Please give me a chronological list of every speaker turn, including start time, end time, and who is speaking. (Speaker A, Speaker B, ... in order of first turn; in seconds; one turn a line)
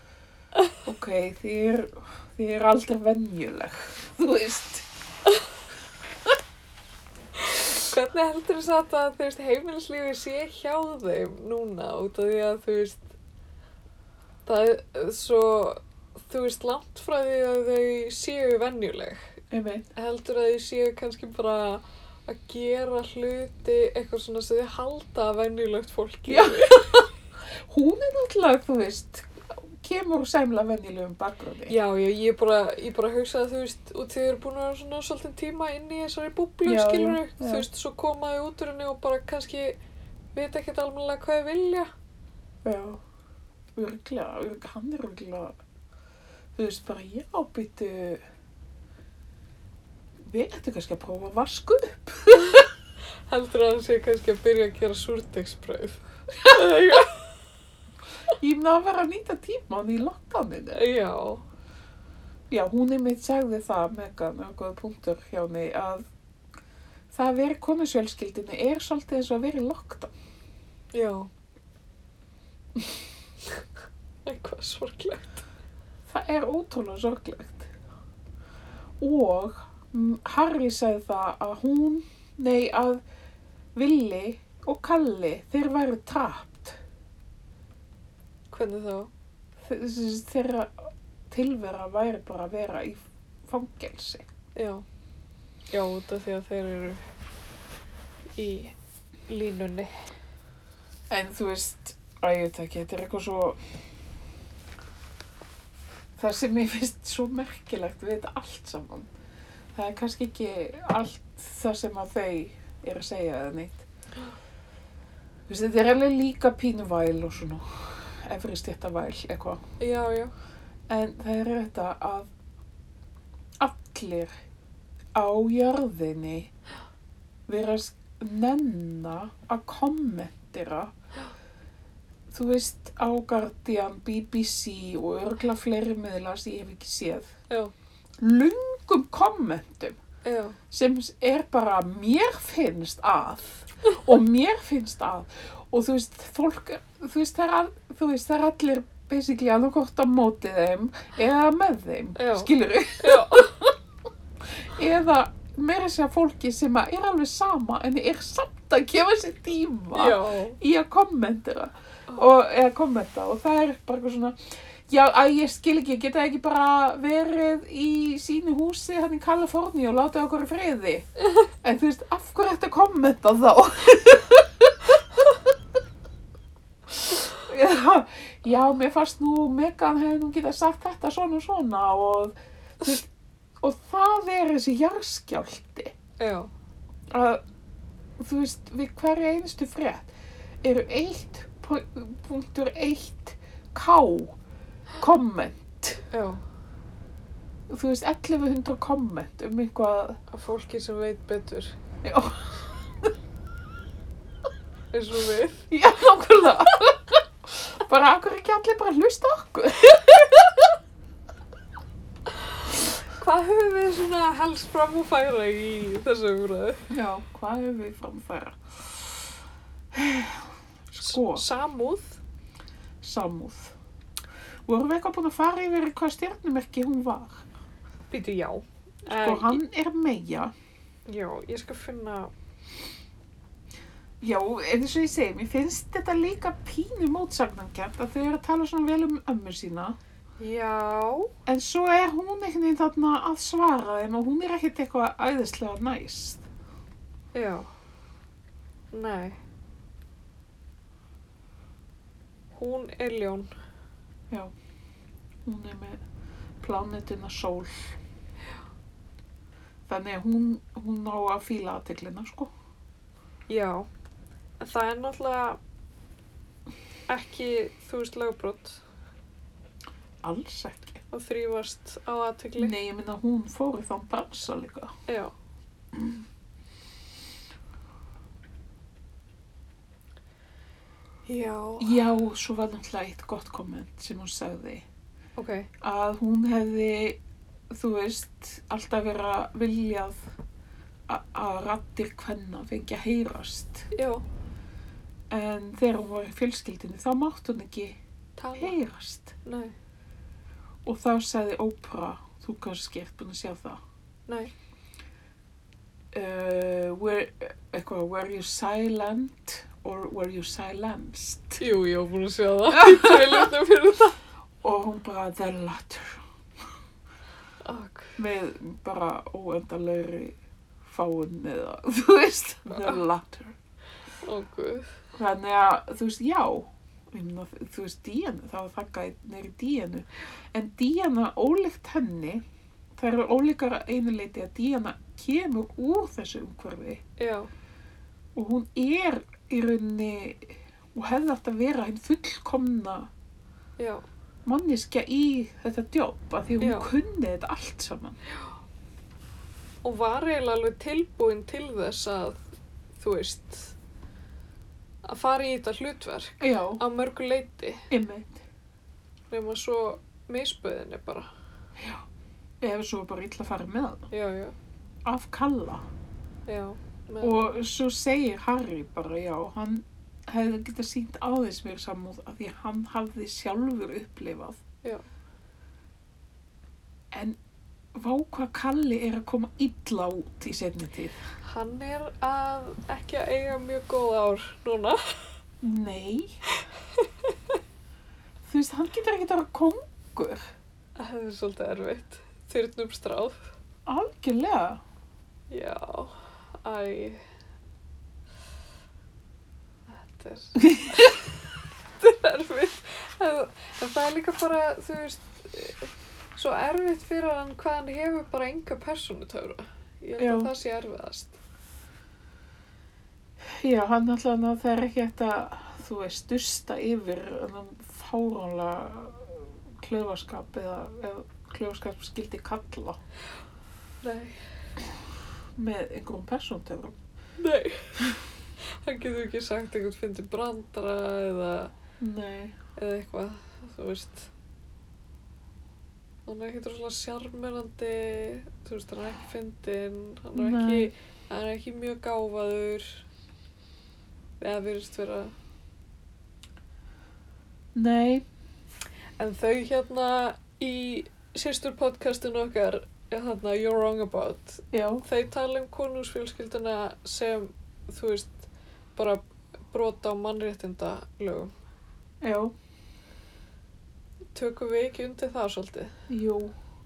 Speaker A: 0.8-4.8
Speaker B: 7.5-13.1
Speaker B: 14.4-19.3
Speaker A: 19.5-19.9
Speaker B: 19.9-27.0
Speaker A: 26.3-27.1
Speaker A: 27.6-31.8
Speaker B: 31.7-39.8
Speaker A: 36.6-37.7
Speaker B: 40.3-41.9
Speaker A: 42.6-43.0
Speaker A: 43.8-45.5
Speaker A: 46.5-48.2
Speaker A: 50.2-52.7
Speaker B: 53.3-57.2
Speaker A: 58.4-60.8
Speaker B: 60.7-61.4
Speaker A: 62.5-66.0
Speaker A: 67.1-70.1
Speaker B: 70.9-71.3
Speaker B: 74.2-75.4
Speaker A: 76.1-77.7
Speaker A: 79.0-83.0
Speaker A: 83.7-86.8
Speaker B: 88.5-89.1
Speaker A: 89.6-94.2
Speaker B: 94.5-94.8
Speaker B: 95.7-97.0
Speaker B: 98.3-98.7
Speaker B: 99.3-100.1
Speaker A: 101.1-103.6
Speaker A: 106.2-109.1
Speaker A: 109.7-113.8
Speaker A: 115.5-119.6
Speaker B: 119.8-120.3
Speaker A: 120.9-122.3
Speaker A: 123.6-124.3
Speaker A: 125.1-126.5
Speaker A: 127.5-130.9
Speaker A: 132.3-137.3
Speaker A: 138.2-140.0
Speaker B: 140.2-140.6
Speaker A: 140.7-153.7
Speaker B: 152.2-153.5
Speaker A: 154.6-175.0
Speaker B: 159.9-160.6
Speaker A: 177.0-183.1
Speaker A: 183.6-185.9
Speaker B: 186.2-186.5
Speaker A: 187.1-187.4
Speaker A: 188.2-190.1
Speaker A: 190.6-194.4
Speaker A: 195.0-196.0
Speaker B: 196.1-196.4
Speaker A: 197.7-200.2
Speaker B: 200.3-201.7
Speaker A: 202.0-203.1
Speaker B: 204.9-205.7
Speaker A: 205.7-210.7
Speaker B: 212.7-216.9
Speaker A: 216.9-219.3
Speaker A: 219.9-221.4
Speaker B: 221.0-222.2
Speaker A: 223.0-223.7
Speaker A: 224.7-227.4
Speaker B: 228.1-229.6
Speaker A: 229.1-230.5
Speaker B: 231.1-232.3
Speaker A: 234.2-240.0
Speaker B: 240.4-241.3
Speaker A: 241.4-246.4
Speaker B: 247.3-247.7
Speaker B: 248.9-249.4
Speaker B: 252.5-253.5
Speaker A: 255.4-256.0
Speaker A: 256.6-257.9
Speaker A: 259.9-262.5
Speaker B: 263.5-263.9
Speaker B: 264.6-265.6
Speaker B: 267.1-268.8
Speaker A: 270.2-271.0
Speaker B: 271.1-272.7
Speaker A: 272.6-274.9
Speaker B: 275.1-275.3
Speaker A: 275.9-276.2
Speaker B: 281.2-282.0
Speaker A: 281.8-284.8
Speaker B: 285.4-285.7
Speaker A: 285.8-287.2
Speaker A: 287.7-290.2
Speaker A: 291.1-293.9
Speaker B: 293.9-294.2
Speaker A: 295.3-298.0
Speaker B: 298.4-298.8
Speaker A: 298.6-299.3
Speaker B: 299.4-299.7
Speaker A: 300.8-303.8
Speaker B: 304.3-304.5
Speaker A: 306.1-311.6
Speaker B: 311.6-314.2
Speaker A: 312.7-313.5
Speaker A: 314.6-316.2
Speaker B: 317.6-318.2
Speaker A: 318.2-323.5
Speaker B: 322.7-323.0
Speaker B: 324.2-324.9
Speaker A: 325.1-332.4
Speaker A: 332.9-337.0
Speaker B: 337.2-337.5
Speaker A: 338.3-343.1
Speaker B: 343.8-344.0
Speaker A: 344.4-348.2
Speaker B: 346.6-346.9
Speaker B: 349.8-352.4
Speaker B: 353.0-353.7
Speaker B: 355.0-357.9
Speaker A: 356.4-356.8
Speaker A: 357.9-358.4
Speaker B: 359.3-361.3
Speaker A: 361.8-362.0
Speaker A: 362.6-364.1
Speaker B: 364.1-364.6
Speaker A: 365.0-365.8
Speaker B: 366.5-367.6
Speaker A: 367.2-374.6
Speaker A: 377.1-377.4
Speaker A: 377.9-381.2
Speaker B: 381.4-385.1
Speaker A: 385.6-386.4
Speaker A: 388.4-390.5
Speaker B: 391.0-393.5
Speaker A: 393.9-394.8
Speaker B: 395.5-397.2
Speaker B: 399.9-401.4
Speaker B: 402.0-411.4
Speaker A: 410.2-410.5
Speaker A: 413.5-423.0
Speaker B: 424.0-424.4
Speaker A: 425.6-426.9
Speaker B: 427.4-427.9
Speaker B: 428.8-431.7
Speaker A: 432.0-432.6
Speaker B: 432.8-434.3
Speaker B: 436.2-443.0
Speaker A: 440.3-440.9
Speaker B: 444.4-445.3
Speaker A: 447.7-448.2
Speaker B: 449.2-461.5
Speaker A: 454.7-455.0
Speaker A: 462.2-462.5
Speaker B: 464.3-465.9
Speaker A: 466.1-466.5